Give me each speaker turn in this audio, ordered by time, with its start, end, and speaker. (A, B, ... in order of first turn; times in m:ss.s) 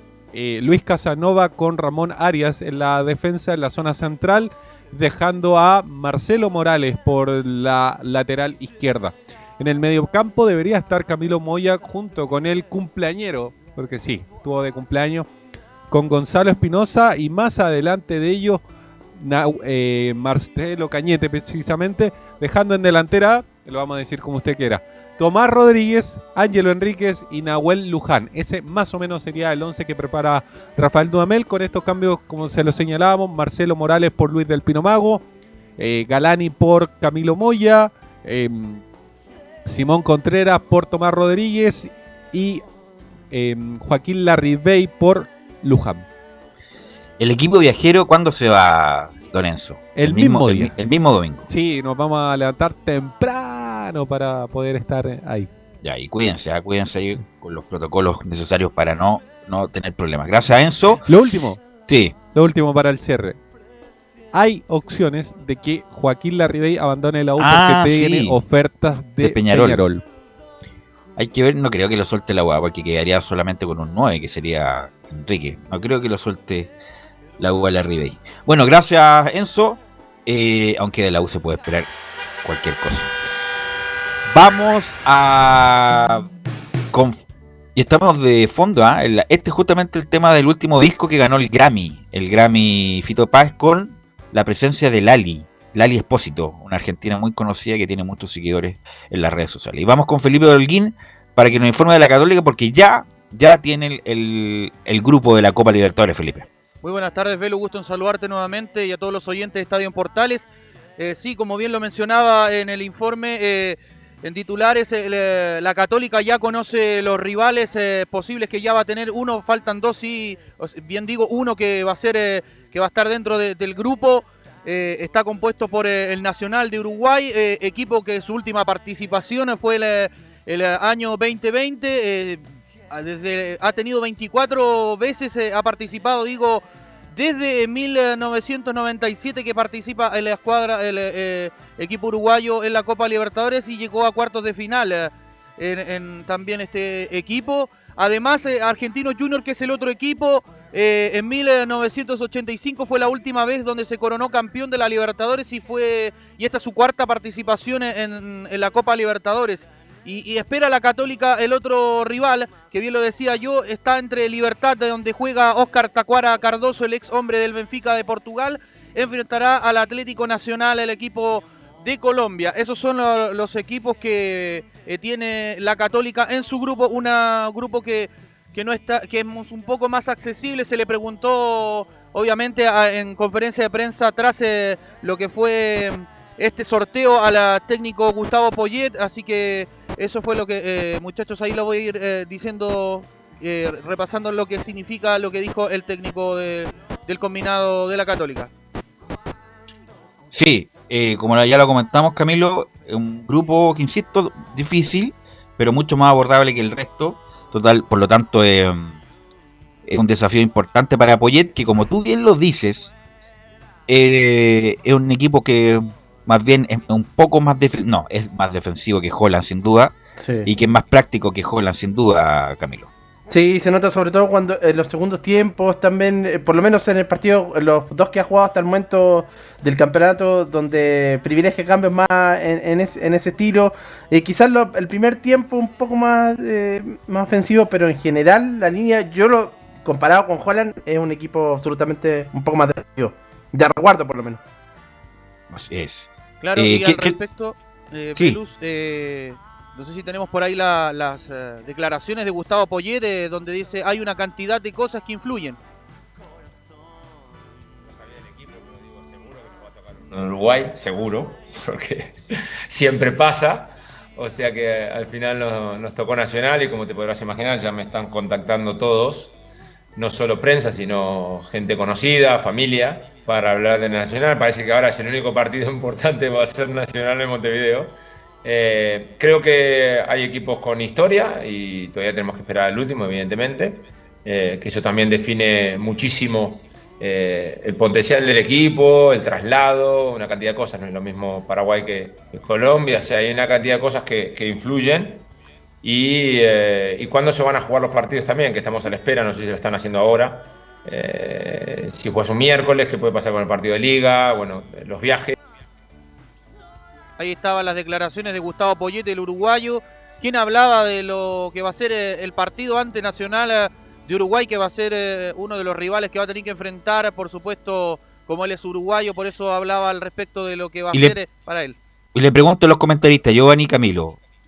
0:00.3-0:15.3 A
0:15.9-0:18.6 A
0:19.2-0:35.2 A
0:35.8-0:38.8 A
0:39.6-0:42.6 A
0:43.3-0:46.0 A
0:47.2-0:51.4 B
0:49.9-0:50.7 A
0:51.5-0:55.5 A
0:55.8-1:01.0 B
1:01.0-1:01.6 A
1:01.8-1:02.2 B
1:02.3-1:03.4 A
1:04.3-1:10.0 A
1:07.4-1:08.4 B
1:09.2-1:09.8 B
1:11.2-1:16.7 B
1:17.4-1:21.9 B
1:22.4-1:23.1 B
1:24.3-1:26.3 B
1:26.9-1:27.2 B
1:27.7-1:46.4 B
1:46.8-3:18.5 C
3:20.3-3:29.0 B
3:29.8-3:32.9 B
3:33.9-3:39.9 B
3:40.2-3:40.5 D
3:40.4-3:42.9 B
3:43.3-4:04.4 D
4:05.5-4:07.2 B
4:06.4-4:15.6 C
4:18.4-4:22.2 E
4:22.7-4:29.3 E
4:30.0-4:55.3 E
4:55.8-5:05.4 E
5:07.2-5:21.8 C
5:20.9-5:21.2 B
5:22.1-5:24.2 B